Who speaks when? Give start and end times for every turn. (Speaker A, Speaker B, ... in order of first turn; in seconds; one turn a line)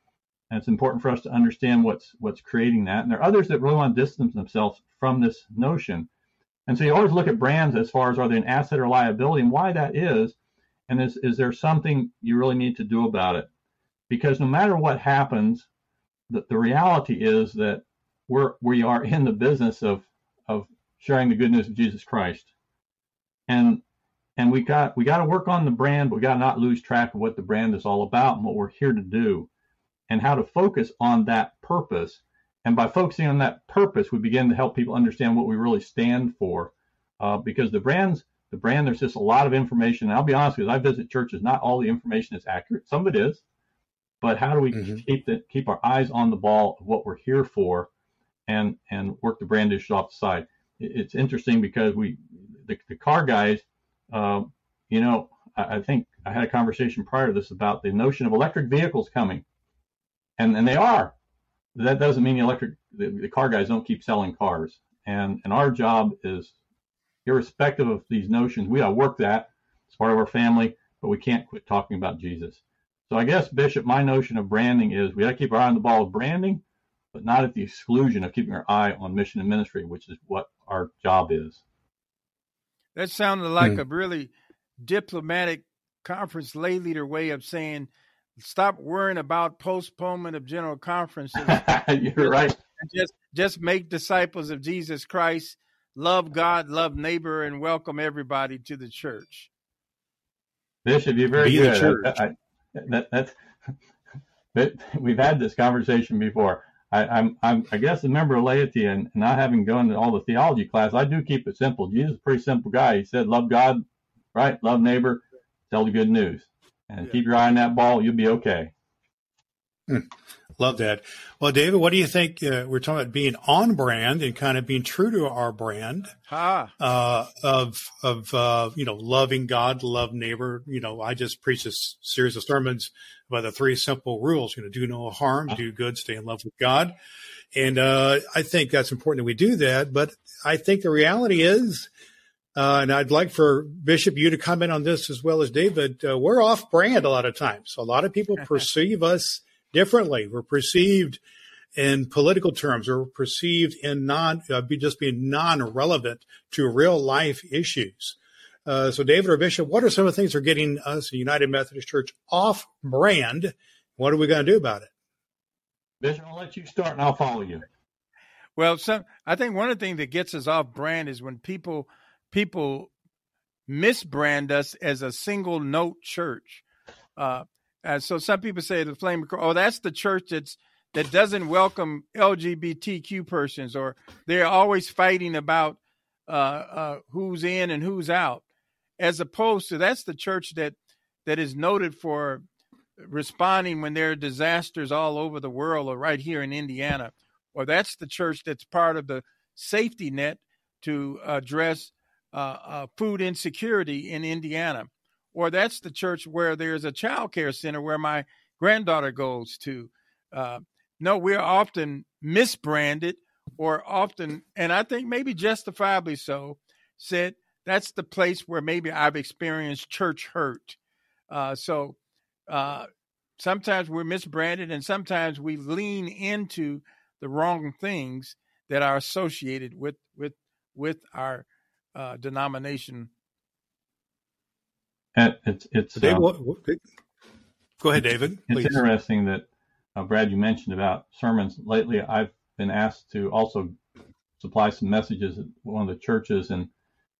Speaker A: 0.5-6.1
Speaker A: 6.7-10.3
Speaker A: 10.9-13.5
Speaker A: 14.1-15.7
Speaker A: 16.3-22.5
Speaker A: 23.5-23.8
Speaker A: 24.4-29.5
Speaker A: 30.1-43.4
Speaker A: 44.2-47.9
Speaker B: 44.7-45.0
Speaker A: 48.5-59.4
Speaker A: 60.4-61.1
Speaker A: 61.7-66.5
Speaker A: 67.2-76.6
Speaker A: 77.1-81.6
Speaker C: 82.9-99.5
Speaker A: 91.4-92.5
Speaker A: 100.8-103.4
Speaker B: 101.4-102.2
Speaker A: 104.5-113.8
Speaker A: 114.3-118.7
Speaker B: 119.9-126.1
Speaker C: 126.3-126.7
Speaker B: 126.8-136.9
Speaker B: 137.5-141.9
Speaker B: 142.6-151.2
Speaker B: 151.8-164.9
Speaker A: 166.0-167.6
Speaker C: 168.6-172.9
Speaker C: 173.7-176.6
Speaker C: 177.2-188.4
Speaker C: 189.0-192.4
Speaker C: 193.0-220.8
Speaker C: 221.3-221.9
Speaker C: 222.5-233.1
Speaker A: 235.1-236.2
Speaker B: 235.9-236.8
Speaker B: 237.8-238.8
Speaker A: 238.5-243.8
Speaker A: 244.4-246.7